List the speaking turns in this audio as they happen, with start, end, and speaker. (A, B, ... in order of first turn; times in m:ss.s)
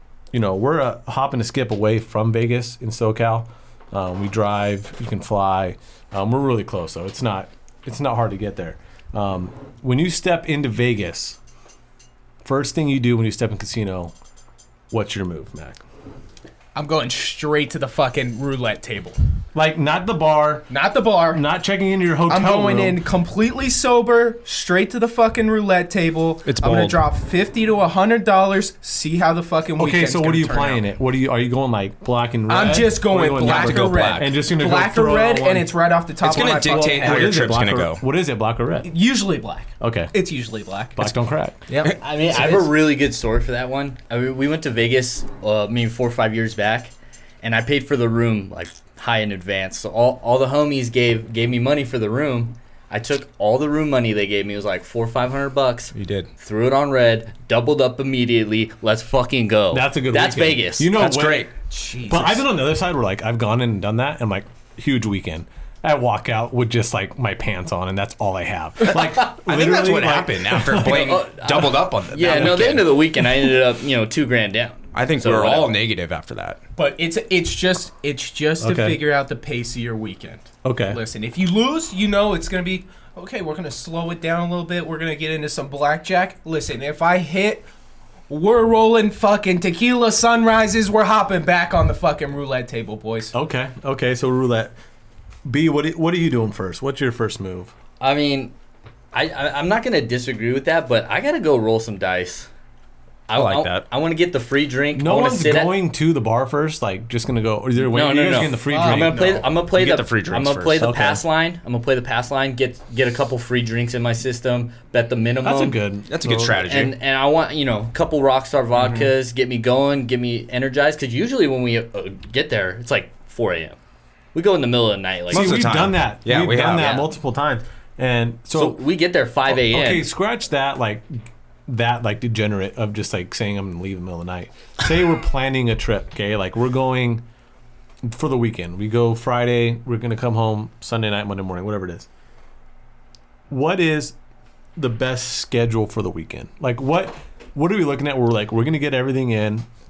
0:00.3-0:11.4 A
0:12.4-0:14.1 A
0:14.9-0:15.8 A
0:16.8-0:19.2 B
0:19.5-0:20.7 A
0:20.7-0:21.4 B
0:21.3-0:23.0 A
0:22.3-0:30.9 B
0:26.4-0:27.0 C
0:29.8-0:38.9 A
0:32.5-0:37.3 B
0:33.4-0:34.3 C
0:36.2-0:38.0 C
0:38.8-0:41.2 B
0:39.8-0:40.2 A
0:41.0-0:41.6 A
0:41.7-0:42.8 B
0:42.0-1:00.9 D
0:55.9-0:56.3 C
0:59.7-1:01.5 A
1:01.0-1:01.5 C
1:01.7-1:02.5 B
1:02.1-1:11.2 A
1:09.1-1:13.0 C
1:10.8-1:15.7 D
1:14.9-1:16.6 C
1:16.8-1:27.7 B
1:18.6-1:19.0 A
1:20.6-1:21.0 A
1:28.3-1:33.3 B
1:33.3-1:34.7 A
1:35.5-1:37.7 A
1:38.0-1:38.5 D
1:39.1-1:42.5 D
1:43.3-1:45.8 D
1:43.3-1:43.8 C
1:45.0-1:49.3 A
1:47.8-1:55.8 D
1:48.7-1:49.5 B
1:49.7-1:50.9 C
1:50.8-1:51.2 A
1:55.4-1:56.6 A
1:56.1-1:57.0 C
1:56.6-2:03.8 D
1:58.8-1:59.1 B
2:04.3-2:05.7 D
2:05.3-2:07.0 C
2:05.3-2:08.8 A
2:06.8-2:07.1 D
2:08.5-2:10.1 D
2:09.5-2:17.2 A
2:18.0-2:22.1 A
2:23.5-2:24.2 A
2:24.8-2:29.7 A